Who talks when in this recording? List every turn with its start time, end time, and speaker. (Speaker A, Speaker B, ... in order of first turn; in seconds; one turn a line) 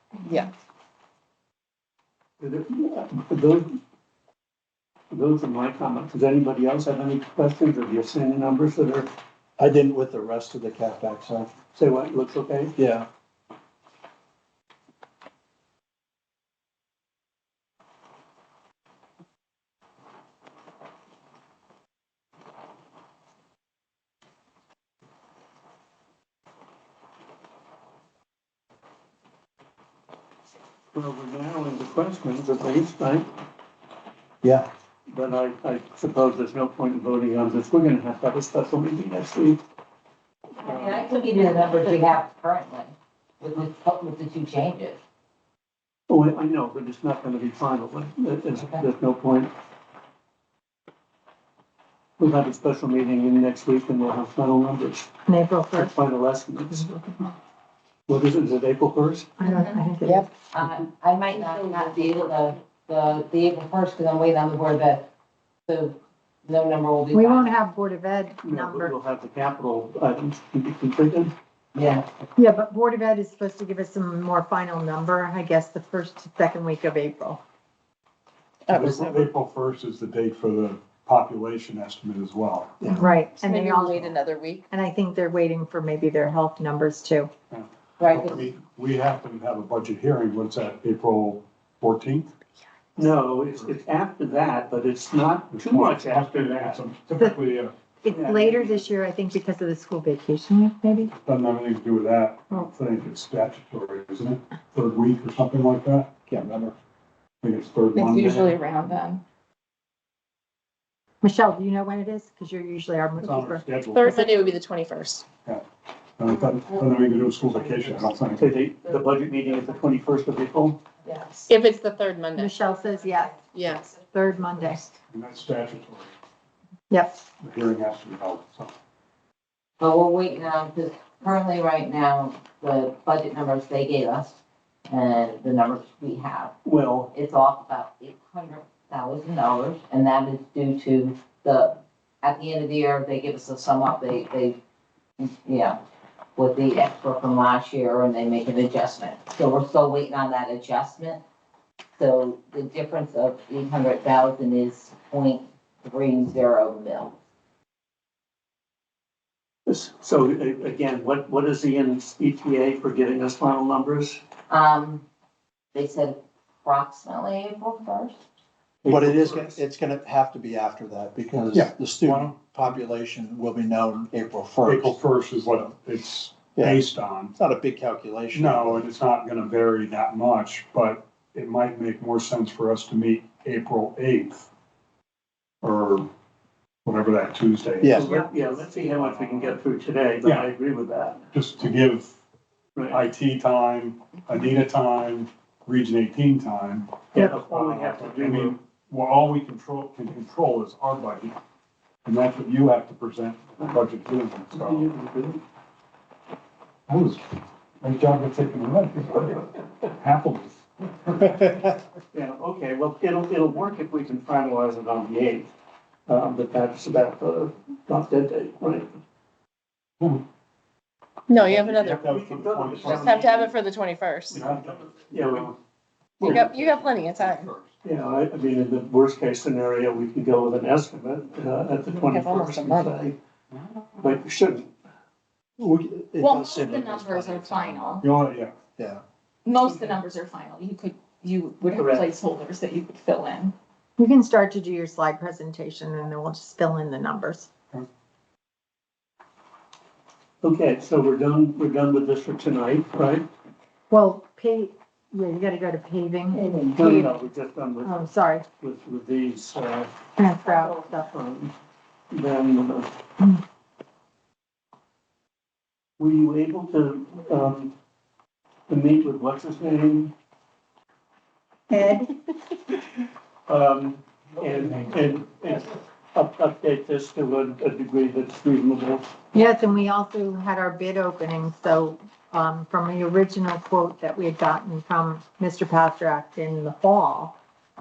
Speaker A: 2.4-3.8
Speaker A: 5.1-9.1
Speaker B: 9.6-11.5
Speaker A: 11.7-12.7
Speaker B: 12.8-13.1
Speaker A: 30.9-33.3
Speaker B: 34.4-34.7
Speaker A: 35.1-39.6
Speaker C: 40.6-45.0
Speaker A: 40.6-41.0
Speaker A: 46.1-49.5
Speaker C: 48.5-48.8
Speaker A: 52.2-55.1
Speaker D: 55.3-55.9
Speaker A: 55.8-56.9
Speaker D: 56.7-57.3
Speaker A: 58.1-59.3
Speaker D: 59.4-60.3
Speaker E: 59.4-59.9
Speaker C: 60.5-65.1
Speaker C: 65.7-67.5
Speaker D: 67.1-68.9
Speaker A: 68.4-71.3
Speaker C: 71.7-72.2
Speaker D: 72.3-77.4
Speaker F: 78.7-79.1
Speaker G: 78.7-82.9
Speaker D: 82.9-84.1
Speaker F: 83.4-84.7
Speaker D: 84.7-87.3
Speaker G: 87.5-92.3
Speaker C: 88.0-88.5
Speaker A: 93.0-96.8
Speaker G: 95.5-97.7
Speaker D: 97.1-101.1
Speaker A: 98.1-98.8
Speaker G: 101.1-106.1
Speaker B: 106.3-106.7
Speaker G: 107.4-108.6
Speaker E: 107.9-109.2
Speaker D: 111.2-114.4
Speaker G: 113.2-114.5
Speaker F: 113.9-115.2
Speaker G: 116.2-118.6
Speaker A: 118.4-120.8
Speaker F: 121.2-122.5
Speaker D: 122.3-123.4
Speaker F: 123.5-124.0
Speaker D: 124.0-124.9
Speaker G: 125.1-126.1
Speaker D: 126.9-127.2
Speaker G: 127.4-128.7
Speaker C: 129.8-134.3
Speaker C: 134.9-136.5
Speaker A: 136.6-137.1
Speaker C: 137.1-144.6
Speaker C: 145.2-145.8
Speaker C: 146.4-151.2
Speaker C: 152.0-157.2
Speaker A: 159.7-164.2
Speaker C: 164.5-165.0
Speaker C: 165.7-168.2
Speaker A: 168.8-169.6
Speaker B: 168.9-175.0
Speaker G: 171.5-172.4
Speaker G: 174.7-177.3
Speaker B: 176.6-176.8
Speaker B: 177.4-178.8
Speaker G: 178.3-184.5
Speaker G: 185.6-186.1
Speaker G: 186.9-188.1
Speaker B: 187.8-188.1
Speaker A: 187.9-191.2
Speaker G: 188.8-189.6
Speaker G: 190.2-190.5
Speaker G: 191.3-192.2
Speaker A: 192.8-193.1
Speaker G: 192.9-201.3
Speaker A: 197.1-198.6
Speaker G: 202.1-204.9
Speaker A: 204.5-205.4
Speaker G: 206.9-207.2
Speaker G: 207.8-211.8
Speaker A: 212.1-215.5
Speaker A: 216.1-218.9
Speaker F: 221.3-221.9
Speaker A: 221.5-223.6
Speaker G: 221.5-223.2
Speaker F: 223.0-224.4
Speaker A: 224.3-225.6
Speaker G: 224.4-225.6
Speaker A: 226.2-226.5
Speaker G: 226.2-227.7
Speaker F: 226.2-227.5
Speaker A: 227.8-233.2
Speaker F: 232.0-232.9
Speaker A: 234.0-234.7
Speaker B: 235.6-238.0
Speaker E: 236.2-238.1
Speaker G: 238.0-238.5
Speaker B: 238.8-239.0
Speaker E: 239.4-243.5
Speaker A: 241.6-242.1
Speaker D: 244.0-247.5
Speaker A: 250.4-253.3
Speaker D: 253.9-257.1
Speaker A: 256.7-258.0
Speaker D: 257.8-258.4
Speaker A: 258.6-259.9
Speaker D: 260.2-261.1
Speaker A: 260.4-261.5
Speaker A: 262.1-262.9
Speaker A: 266.0-267.7
Speaker A: 268.7-270.1
Speaker D: 271.7-272.1
Speaker A: 273.5-279.1
Speaker D: 279.3-287.4